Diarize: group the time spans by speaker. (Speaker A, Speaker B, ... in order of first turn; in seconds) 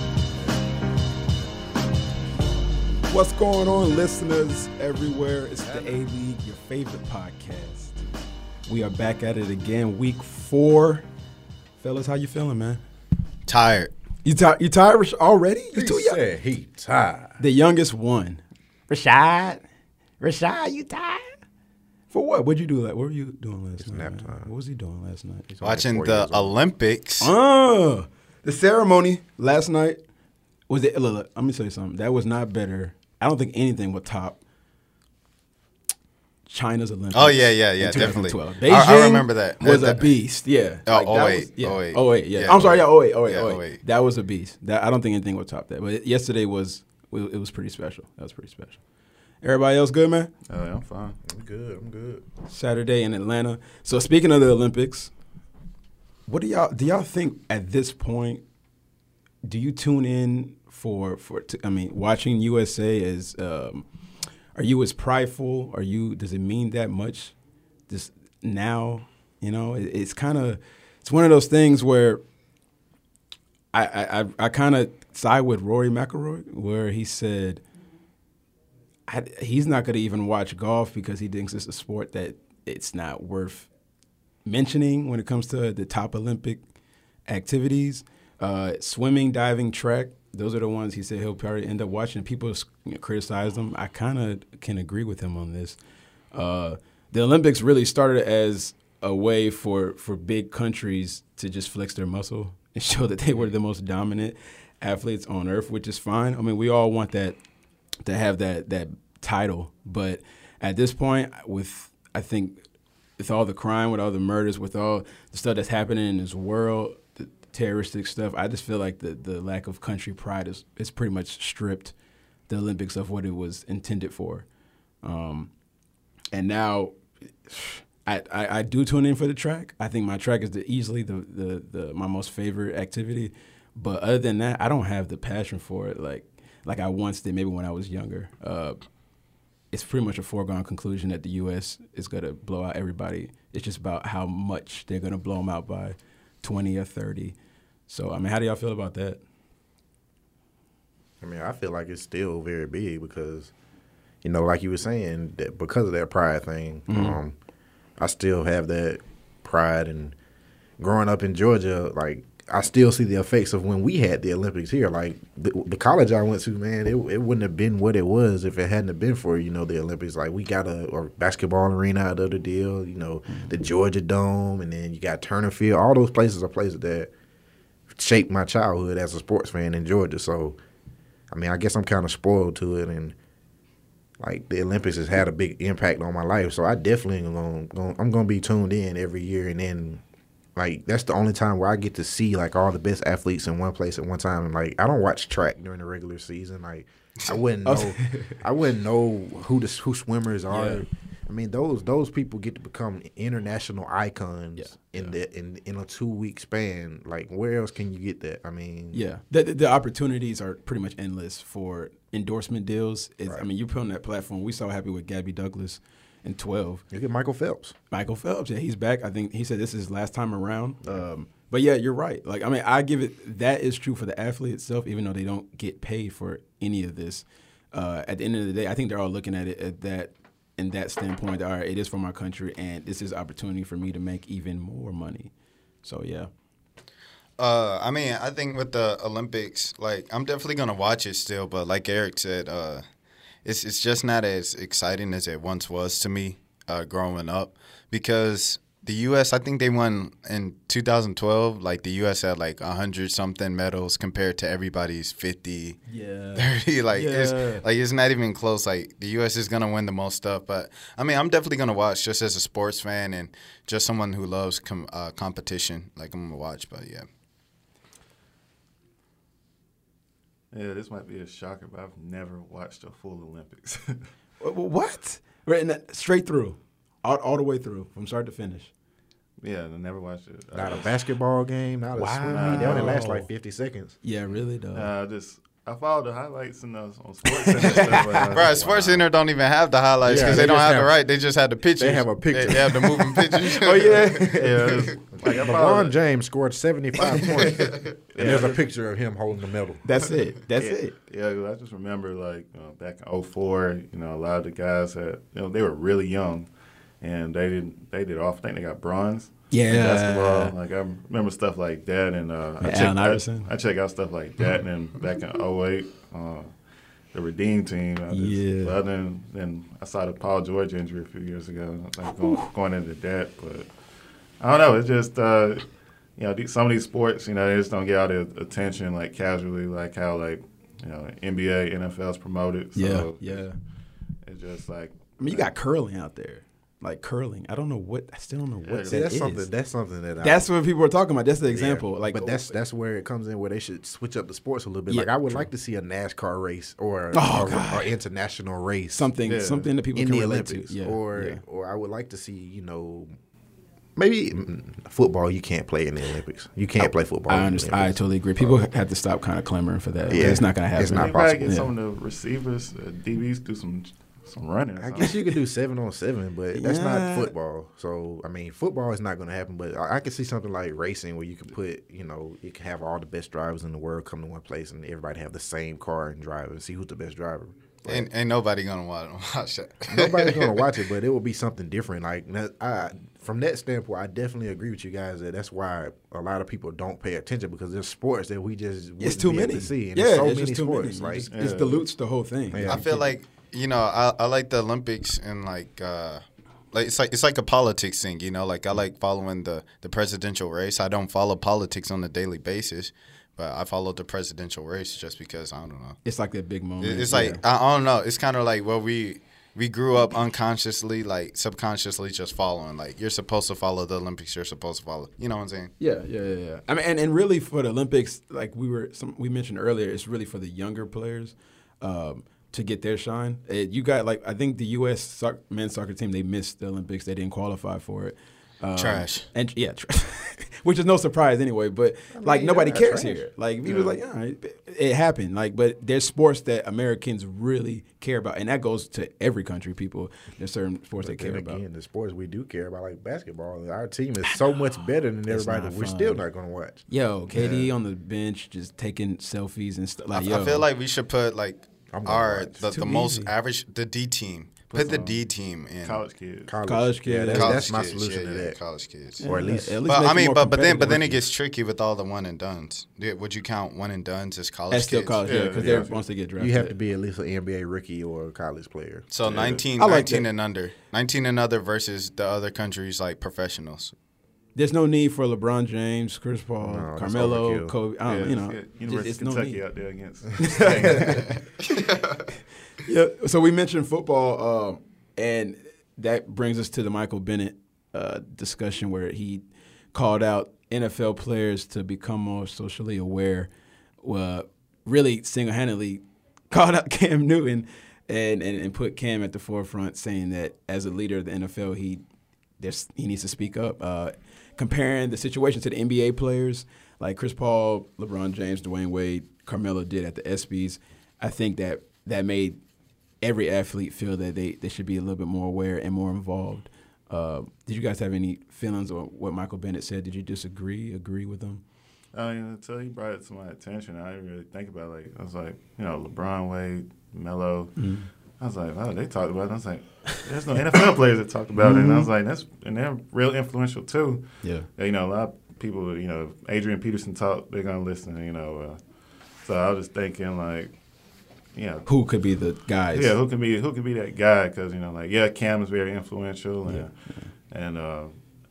Speaker A: 3.0-8.0, 8.7-11.1, 11.8-12.8, 14.2-16.2, 17.4-19.6, 20.2-21.3, 22.1-25.5, 27.2-30.0, 30.7-34.4, 36.5-48.8, 49.4-50.3, 52.4-55.1, 56.3-58.4, 59.4-63.9, 64.5-67.3, 67.9-72.2, 73.7-77.6, 79.1-83.7, 84.4-86.6, 87.3-95.8, 96.3-107.4, 108.0-112.6, 113.2-121.9, 122.5-124.5, 125.0-125.5, 126.3-127.0, 127.5-138.8, 139.7-147.3, 147.9-149.2, 156.9-157.2, 197.6-198.4, 200.5-200.8, 204.6-205.1, 208.9-216.8, 217.9-235.3, 235.8-236.3, 255.9-257.6, 274.4-278.7, 281.9-283.3, 284.0-284.9, 287.3-288.3, 290.1-290.6, 293.1-294.9, 299.8-300.9, 309.5-310.5, 312.6-313.5, 318.1-318.8, 322.2-322.5, 332.8-333.6, 335.2-339.5, 340.2-342.5, 344.9-345.4, 347.1-347.9, 348.9-351.4, 356.8-361.7, 366.5-367.3, 389.0-393.1, 406.0-407.4, 415.8-441.6, 445.3-446.2, 446.9-450.6, 452.6-453.3, 456.6-457.6, 459.2-461.3, 464.7-466.7, 469.8-470.3, 474.5-479.6, 480.4-481.4, 482.8-489.4, 489.9-493.5, 494.0-502.0, 502.6-512.6, 513.2-521.6, 527.8-528.1, 531.6-532.1, 541.9-543.1, 546.6-547.3
Speaker B: 13.5-13.9, 25.6-27.3, 37.1-40.1, 40.9-43.8, 237.4-242.8, 243.4-255.8, 256.4-267.0, 288.3-294.2, 377.9-380.6, 392.7-406.0, 406.8-415.7, 428.8-429.2, 450.1-456.0, 457.3-459.2, 459.9-465.2, 469.1-473.9
Speaker C: 15.7-17.4, 23.8-24.5, 25.5-26.6, 51.2-52.2, 151.2-153.5, 154.2-157.3, 158.0-160.2, 160.8-177.1, 177.9-180.6, 181.3-183.1, 184.2-190.0, 190.6-209.0, 216.9-217.7, 280.5-284.0, 290.0-290.9, 291.8-293.2, 295.1-299.8, 338.9-340.5, 341.5-349.1, 349.9-353.1, 353.9-358.6, 360.1-361.6, 364.8-378.1, 379.9-391.3, 392.5-392.9, 432.1-433.3, 441.0-446.8, 451.9-452.6, 456.5-458.6, 459.2-459.8, 465.6-465.9, 466.4-469.1, 476.6-477.7
Speaker D: 50.5-51.2, 270.5-274.0, 279.4-281.0, 282.3-283.0, 284.7-289.1, 294.2-296.0, 297.6-298.6, 300.6-306.5, 307.0-316.5, 317.1-323.7, 324.4-333.5, 334.2-335.5, 338.6-339.1, 349.2-349.7, 360.1-365.2, 391.3-391.8, 433.6-433.9, 454.7-455.2, 455.8-456.6, 465.2-466.0, 469.2-469.6, 478.1-481.4, 522.1-527.9, 528.4-538.8, 539.4-540.8, 541.5-541.9, 542.9-548.1